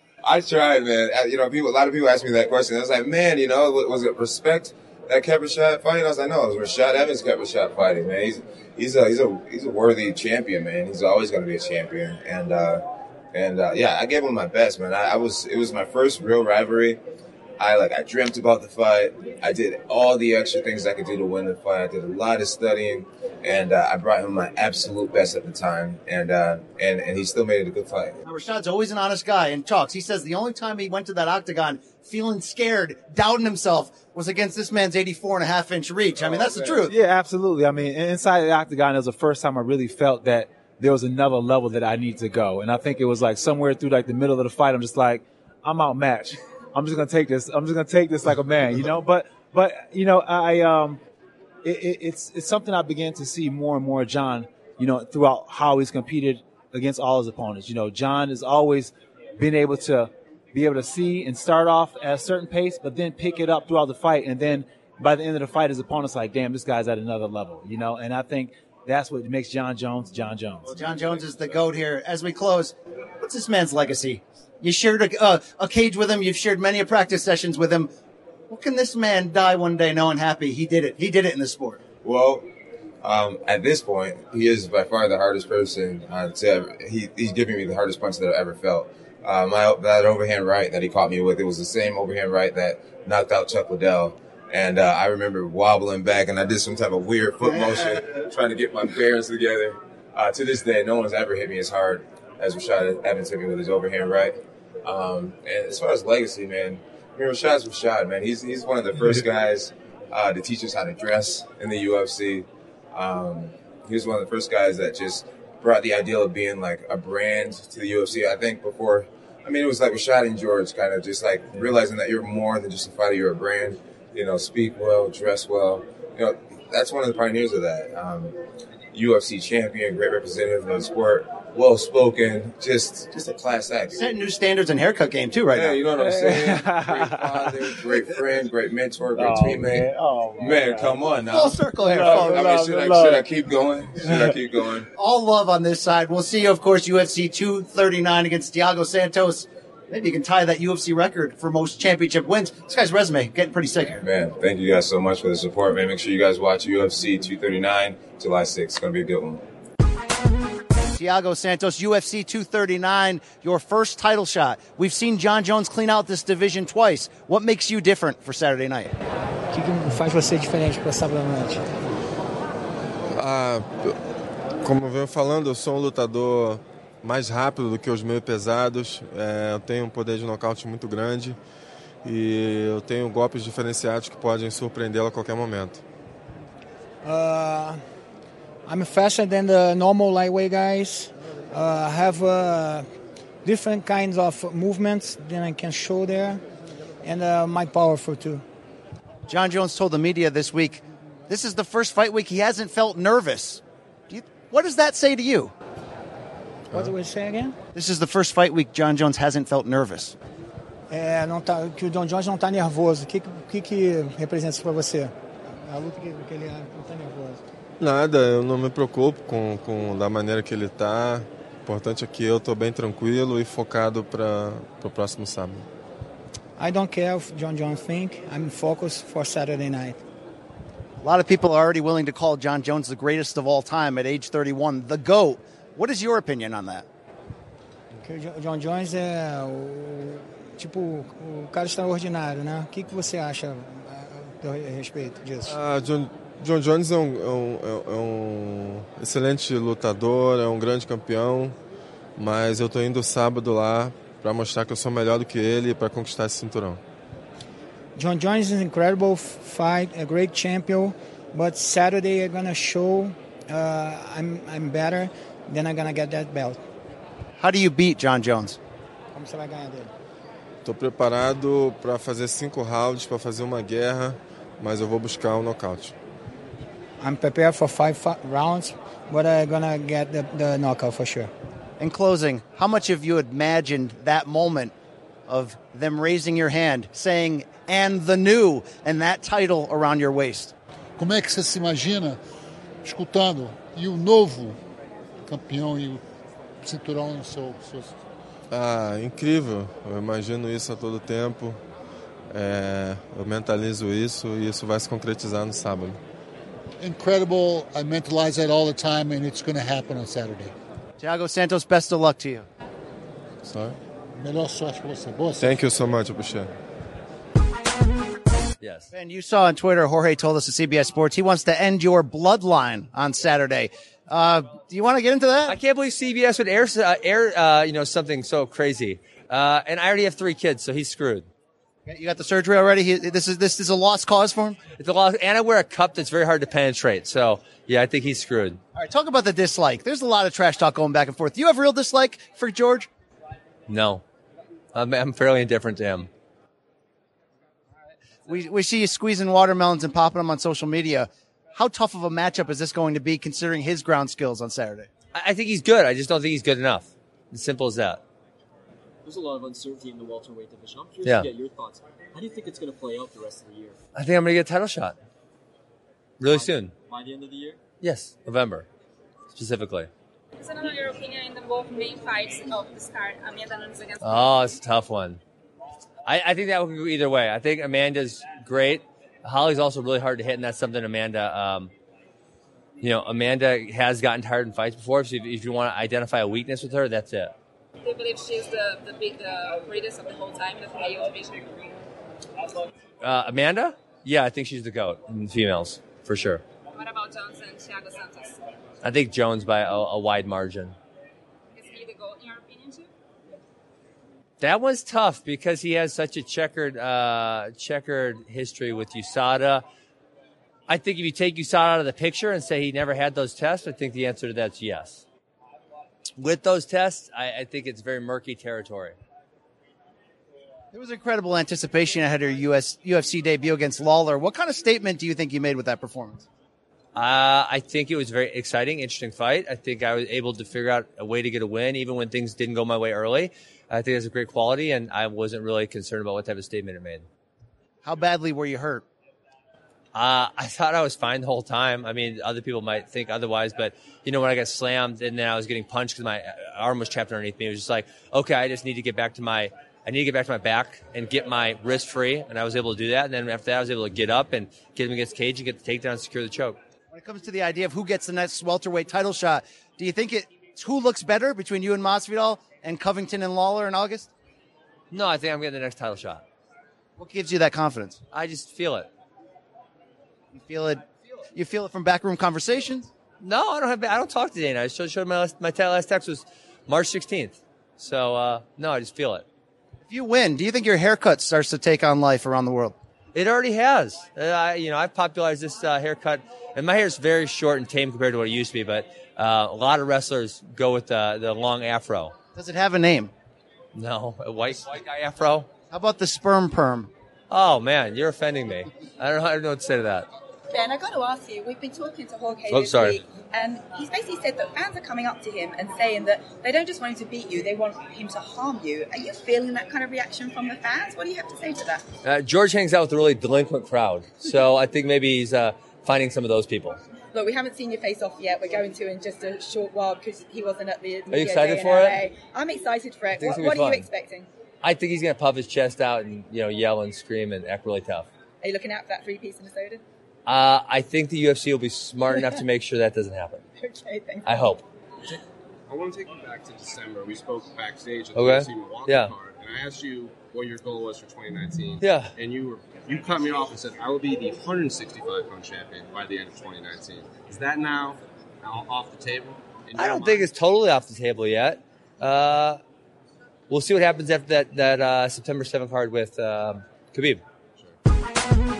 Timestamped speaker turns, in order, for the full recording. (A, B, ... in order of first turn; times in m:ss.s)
0:00.2-0:17.0 A
0:17.6-0:28.2 A
0:28.2-0:36.9 B
0:36.2-0:36.8 A
0:36.8-0:51.0 C
0:51.6-1:10.8 C
1:10.7-1:17.9 B
1:10.8-1:11.6 D
1:18.5-1:21.8 B
1:22.0-1:22.4 A
1:23.0-2:08.3 A
2:08.9-2:14.0 A
2:13.9-2:15.8 B
2:15.5-2:24.9 A
2:15.9-2:18.0 C
2:19.1-2:23.3 C
2:21.3-2:22.6 B
2:24.0-2:24.4 C
2:24.9-2:34.0 B
2:34.0-2:39.4 A
2:40.9-2:48.9 B
2:49.5-2:51.6 E
2:53.1-2:54.0 F
2:54.6-3:01.4 F
3:02.0-3:05.8 F
3:07.0-3:07.8 E
3:08.6-3:12.9 E
3:13.4-3:16.4 E
3:17.0-3:18.4 E
3:19.3-3:25.5 B
3:26.7-3:27.6 E
3:27.7-3:30.1 B
3:30.9-3:37.4 E
3:37.8-3:45.7 F
3:46.6-3:50.0 E
3:51.0-3:56.9 B
3:58.0-4:05.6 E
4:05.4-4:11.6 F
4:12.2-4:16.8 F
4:17.9-4:26.6 E
4:27.4-4:28.6 B
4:29.1-4:29.9 E
4:30.6-4:35.9 F
4:37.0-4:41.3 E
4:41.8-4:44.7 B
4:45.3-4:50.5 B
4:51.0-4:52.2 G
4:52.8-4:54.6 G
4:55.2-4:56.0 G
4:56.6-4:58.0 G
4:58.5-5:01.6 F
5:02.3-5:06.0 F
5:06.8-5:10.5 G
5:11.0-5:12.4 B
5:13.4-5:13.8 F
5:14.2-5:15.6 G
5:15.4-5:16.5 F
5:18.6-5:18.9 H
5:18.9-5:25.6 B
5:25.5-5:31.3 H
5:31.8-5:34.6 B
5:34.8-5:38.6 H
5:38.7-5:42.9 B
5:43.7-5:44.0 H
5:44.7-5:46.1 H
5:48.3-5:54.9 B
5:55.1-5:58.0 H
5:59.0-6:03.8 I
6:01.0-6:01.3 H
6:03.9-6:05.0 H
6:06.2-6:06.7 H
6:06.2-6:07.6 I
6:07.8-6:08.7 H
6:09.3-6:09.9 H
6:10.4-6:14.4 J
6:14.0-6:15.2 H
6:16.0-6:21.7 H
6:22.8-6:27.3 H
6:27.8-6:31.6 J
6:33.0-6:36.4 H
6:36.8-6:38.4 J
6:38.8-6:40.8 H
6:41.5-6:42.9 J
6:44.4-6:49.6 H
6:50.7-6:55.0 H
6:56.2-6:59.0 H
7:00.7-7:06.2 B
7:06.9-7:17.0 H
7:17.8-7:18.8 B
7:19.9-7:36.6 H
7:36.9-7:44.1 B
7:44.9-7:46.2 H
7:47.0-7:48.0 B
7:48.1-7:48.9 H
7:50.3-7:52.9 B
7:53.2-7:59.2 H
7:59.9-8:02.7 B
8:03.1-8:12.1 H
8:12.3-8:13.1 B
8:13.7-8:15.5 H
8:15.7-8:16.9 B
8:17.3-8:20.1 H
8:20.5-8:31.8 K
8:22.5-8:23.0 H
8:32.0-8:36.8 H
8:37.1-8:44.3 K
8:41.1-8:42.0 H
8:43.1-8:43.9 H
8:44.6-8:48.1 H
8:48.4-8:49.8 K
8:50.2-8:53.4 H
8:52.0-8:52.4 K
8:53.6-8:54.5 K
8:54.2-8:54.6 H
8:55.7-9:10.3 D
8:58.1-8:59.1 H
9:01.8-9:02.1 H
9:09.8-9:12.6 H
9:13.5-9:17.2 H